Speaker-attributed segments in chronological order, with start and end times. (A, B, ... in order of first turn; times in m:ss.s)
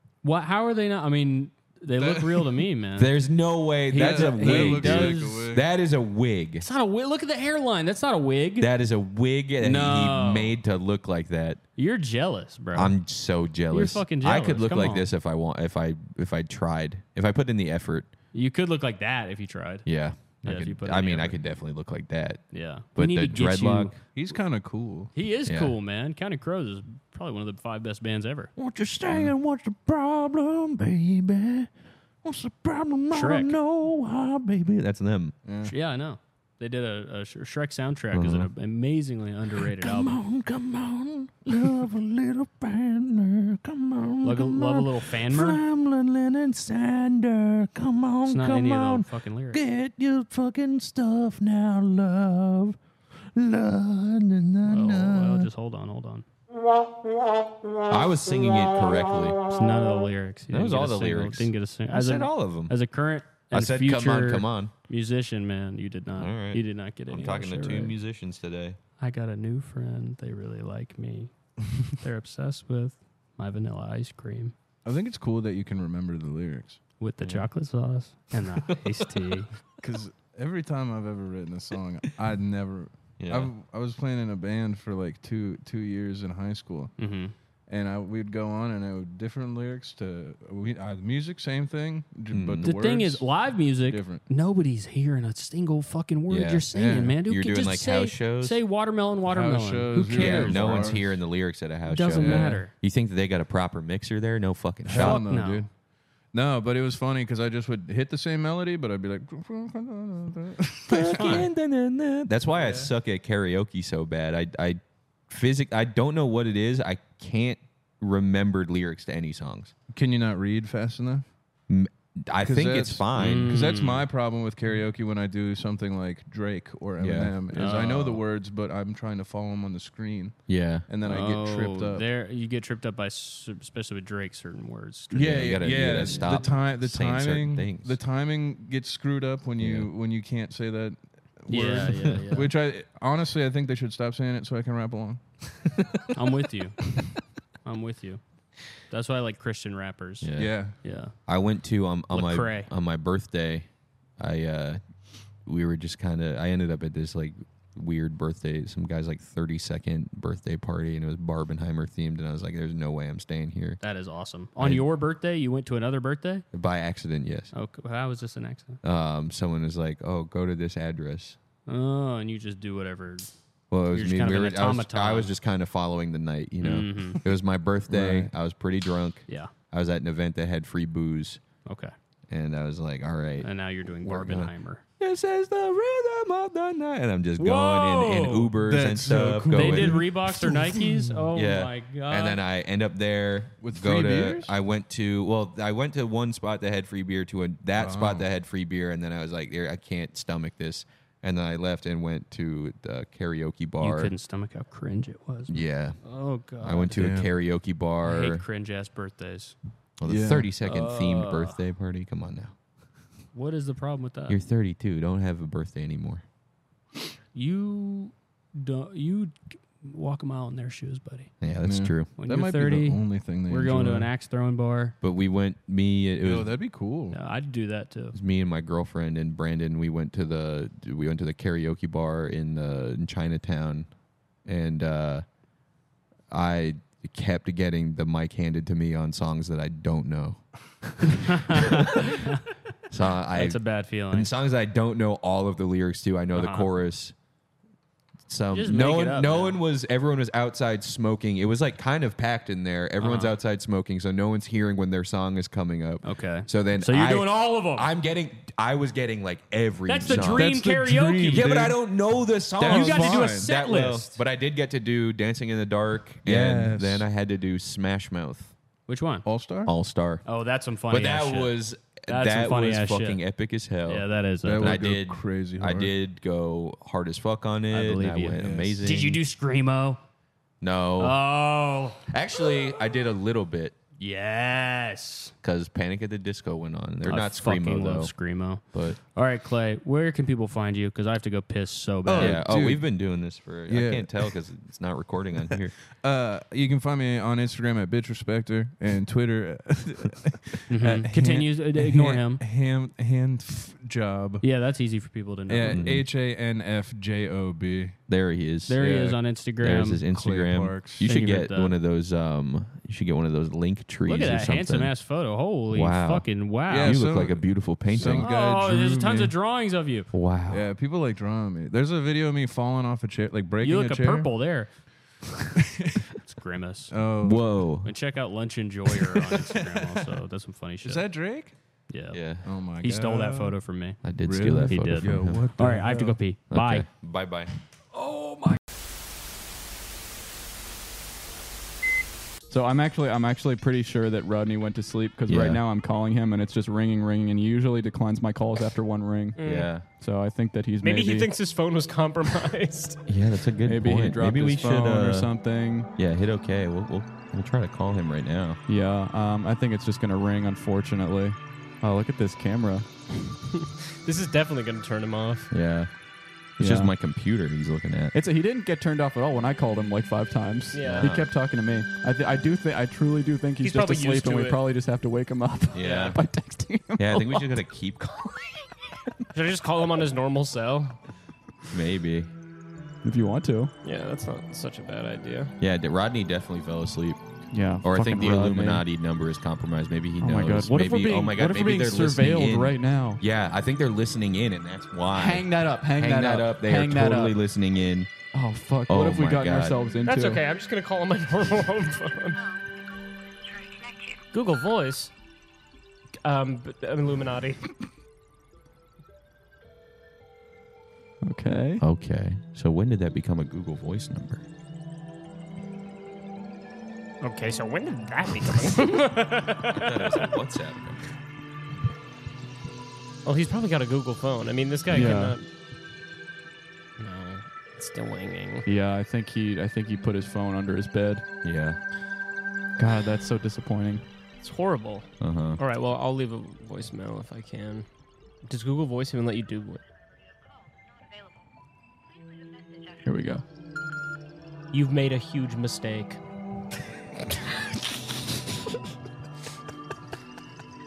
0:00.2-0:03.1 A
0:02.0-0:02.4 B
0:03.0-0:06.6 C
0:03.9-0:05.5 A
0:04.0-0:05.6 B
0:06.6-0:08.7 A
0:08.6-0:11.6 C
0:09.6-0:10.6 A
0:11.8-0:13.0 A
0:12.7-0:18.1 C
0:13.7-0:15.1 A
0:18.3-0:19.9 A
0:19.8-0:22.4 C
0:20.4-0:21.4 A
0:22.5-0:24.0 A
0:23.0-0:24.0 C
0:24.1-0:25.1 B
0:25.1-0:28.5 A
0:25.4-0:25.7 C
0:28.6-0:31.7 C
0:32.2-0:35.4 C
0:33.1-0:33.6 A
0:35.4-0:35.7 B
0:35.7-0:40.2 A
0:38.1-0:38.5 C
0:39.6-0:52.8 C
0:44.2-0:45.6 A
0:48.2-0:49.6 A
0:53.3-0:55.5 C
0:54.6-0:56.2 A
0:57.9-0:59.4 C
0:59.5-1:08.0 A
1:00.5-1:02.7 C
1:03.5-1:04.7 C
1:06.2-1:08.8 C
1:09.0-1:11.3 A
1:11.9-1:14.5 A
1:14.8-1:16.8 B
1:17.0-1:19.5 A
1:18.6-1:19.0 C
1:19.8-1:26.9 B
1:23.2-1:23.5 C
1:27.0-1:27.3 A
1:27.7-1:34.2 B
1:32.3-1:32.7 C
1:32.6-1:41.0 A
1:36.3-1:36.7 C
1:36.7-1:37.2 B
1:37.2-1:38.6 C
1:39.3-1:41.1 B
1:40.1-1:45.3 C
1:41.9-1:42.7 A
1:42.2-1:42.6 B
1:44.8-1:45.7 B
1:44.9-1:45.7 A
1:46.3-1:51.4 B
1:50.9-1:59.7 C
1:51.2-1:51.4 A
1:52.6-1:52.9 B
1:59.9-2:01.3 B
2:01.7-2:03.6 C
2:02.4-2:12.1 B
2:03.2-2:04.1 A
2:07.0-2:07.4 C
2:07.5-2:08.2 A
2:10.5-2:10.9 C
2:11.0-2:15.6 A
2:15.1-2:25.2 B
2:15.1-2:18.0 C
2:19.6-2:19.9 C
2:21.5-2:22.5 A
2:25.8-2:26.1 C
2:26.1-2:26.8 A
2:27.6-2:28.2 A
2:28.9-2:30.3 A
2:30.2-2:30.6 C
2:30.4-2:30.8 B
2:30.8-2:31.1 A
2:31.2-2:34.8 C
2:32.1-2:32.7 A
2:35.4-2:43.8 C
2:43.8-2:46.4 A
2:44.6-2:44.9 C
2:46.5-2:47.5 C
2:47.5-2:48.8 A
2:48.8-2:51.4 C
2:51.7-2:53.3 A
2:53.7-3:01.4 C
2:53.9-2:55.3 A
2:56.6-2:57.2 A
2:57.9-2:58.3 B
3:01.7-3:01.9 A
3:02.3-3:03.5 C
3:03.4-3:04.8 A
3:04.0-3:10.0 C
3:07.4-3:08.5 A
3:08.7-3:11.1 B
3:09.5-3:12.4 A
3:11.3-3:24.1 C
3:13.6-3:14.6 B
3:17.8-3:18.3 B
3:23.8-3:27.0 A
3:25.5-3:26.0 C
3:26.6-3:28.4 C
3:26.9-3:27.3 B
3:28.0-3:29.6 A
3:30.0-3:32.6 C
3:30.0-3:30.5 B
3:30.6-3:31.6 A
3:33.3-3:34.4 A
3:34.3-3:36.2 C
3:37.3-3:41.3 A
3:41.4-3:42.1 C
3:41.6-3:44.1 B
3:42.2-3:45.0 A
3:45.0-3:46.5 C
3:46.2-3:47.2 B
3:47.1-3:48.1 A
3:48.1-3:53.9 C
3:54.4-3:55.2 C
3:56.3-4:07.1 C
4:01.3-4:02.4 A
4:03.3-4:04.3 A
4:06.3-4:06.7 A
4:08.3-4:20.5 C
4:08.5-4:09.6 A
4:13.0-4:13.3 A
4:16.0-4:17.9 A
4:19.9-4:21.5 A
4:20.1-4:21.8 B
4:21.3-4:28.5 C
4:22.6-4:23.5 B
4:22.7-4:24.1 A
4:26.2-4:27.0 B
4:28.9-4:29.2 A
4:29.2-4:29.7 B
4:29.6-4:30.2 C
4:30.2-4:31.5 A
4:30.9-4:34.0 C
4:32.1-4:33.2 A
4:33.9-4:34.8 A
4:34.4-4:35.9 B
4:34.6-4:39.2 C
4:37.7-4:40.0 A
4:38.4-4:39.0 B
4:40.6-4:41.2 C
4:41.0-4:42.0 A
4:42.1-4:43.8 C
4:44.0-4:45.3 A
4:45.4-4:48.1 C
4:47.0-4:52.4 A
4:48.6-4:49.0 C
4:52.0-4:52.9 B
4:52.2-4:55.8 C
4:53.7-4:54.3 B
4:56.0-5:04.4 B
5:00.7-5:02.4 A
5:04.4-5:05.9 A
5:05.5-5:08.0 B
5:05.7-5:06.1 C
5:08.1-5:08.9 C
5:08.7-5:10.0 A
5:08.8-5:09.2 B
5:09.6-5:14.9 C
5:10.1-5:11.1 B
5:11.0-5:11.8 A
5:14.0-5:17.0 A
5:15.7-5:18.3 C
5:16.7-5:19.3 B
5:18.0-5:20.1 A
5:20.1-5:20.7 C
5:20.5-5:24.3 B
5:23.6-5:24.7 A
5:25.6-5:26.0 B
5:26.2-5:27.0 A
5:26.9-5:27.5 B
5:27.2-5:27.9 C
5:27.8-5:31.0 A
5:29.2-5:30.1 B
5:30.8-5:31.6 B
5:31.9-5:32.2 A
5:32.1-5:32.5 C
5:32.4-5:33.6 B
5:32.8-5:34.0 A
5:34.0-5:35.5 C
5:34.2-5:36.2 B
5:34.7-5:36.9 A
5:36.5-5:37.5 C
5:42.5-5:51.4 D
5:45.3-5:45.6 C
5:49.3-5:49.8 E
5:49.4-5:49.9 C
5:50.8-5:53.0 E
5:53.1-5:55.3 C
5:53.6-5:55.9 D
5:56.0-5:58.6 C
5:58.7-6:02.9 D
6:03.6-6:05.5 E
6:05.5-6:05.9 C
6:06.6-6:08.2 C
6:06.6-6:06.9 D
6:08.1-6:17.6 D
6:10.7-6:11.2 E
6:10.9-6:11.3 C
6:13.6-6:14.6 E
6:15.7-6:16.2 C
6:15.8-6:16.2 E
6:17.0-6:19.2 C
6:19.3-6:21.0 E
6:21.7-6:22.3 C
6:23.0-6:23.7 D
6:23.8-6:25.5 E
6:25.6-6:27.2 C
6:27.5-6:28.9 D
6:27.8-6:38.1 C
6:30.2-6:33.2 D
6:35.1-6:37.4 D
6:38.3-6:40.4 D
6:38.9-6:40.0 C
6:40.0-6:42.5 E
6:43.8-6:45.1 E
6:46.2-6:47.7 E
6:51.2-6:51.8 D
6:51.8-6:54.4 C
6:57.2-7:00.2 E
6:59.7-7:01.0 C
7:03.2-7:05.5 E
7:04.9-7:05.4 D
7:07.0-7:08.7 E
7:08.7-7:11.2 D
7:11.4-7:11.8 C
7:12.8-7:14.0 D
7:14.4-7:17.9 E
7:15.2-7:15.6 C
7:18.4-7:19.8 E
7:23.0-7:23.4 D
7:24.7-7:26.2 E